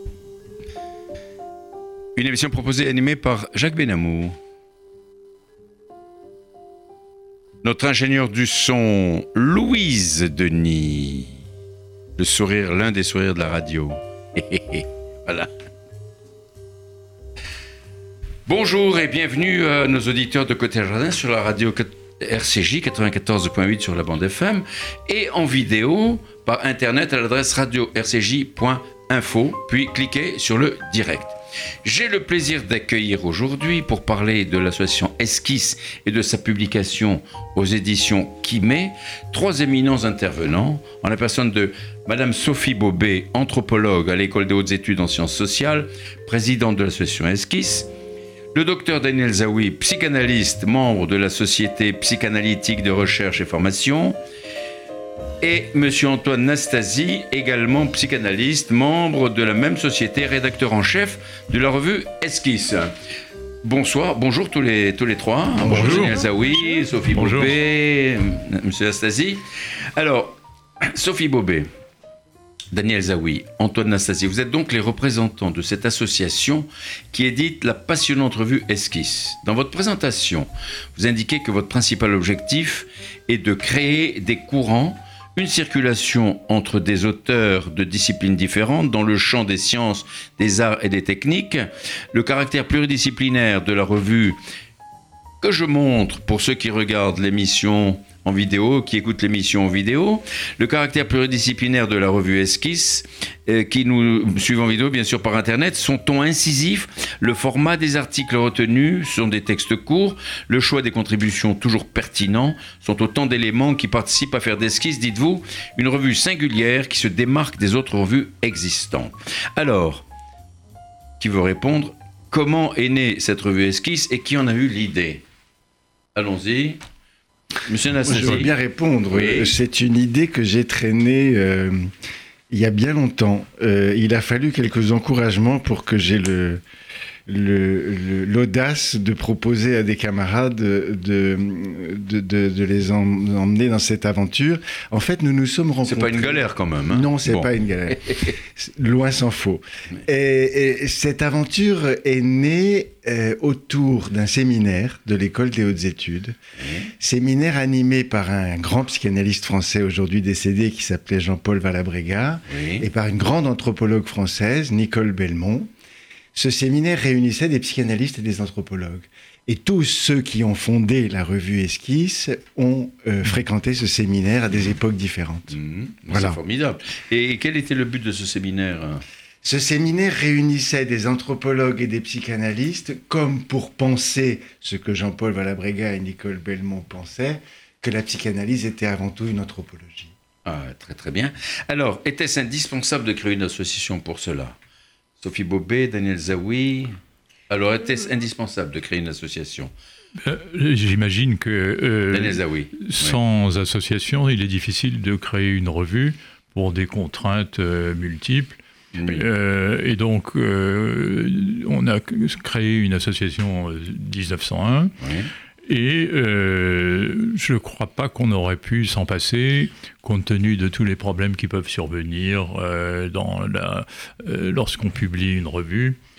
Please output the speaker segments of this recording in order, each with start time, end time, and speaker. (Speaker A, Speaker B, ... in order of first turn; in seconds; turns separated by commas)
Speaker A: 2.1-4.4, Speaker A: 7.6-11.4, Speaker A: 12.2-15.5, Speaker A: 18.4-47.9, Speaker A: 48.5-54.2, Speaker A: 55.4-62.9, Speaker A: 63.6-71.7, Speaker B: 65.6-66.3, Speaker B: 67.1-67.5, Speaker A: 72.7-94.4, Speaker A: 95.4-120.0, Speaker A: 121.2-125.2, Speaker A: 126.1-126.8, Speaker A: 127.6-128.5, Speaker C: 128.0-131.9, Speaker B: 128.2-128.5, Speaker A: 129.1-129.5, Speaker C: 132.5-136.6, Speaker C: 137.2-156.4, Speaker A: 145.8-148.3, Speaker A: 156.6-156.9, Speaker C: 157.0-165.7, Speaker A: 162.5-162.8, Speaker C: 166.3-175.6, Speaker A: 175.5-179.0, Speaker C: 176.1-176.4, Speaker C: 179.4-190.1, Speaker A: 190.4-194.6, Speaker A: 195.2-197.0, Speaker A: 197.5-199.7, Speaker B: 200.2-208.6, Speaker A: 202.1-203.2, Speaker A: 208.9-209.3, Speaker B: 209.1-214.9, Speaker A: 215.0-215.3, Speaker B: 215.6-226.0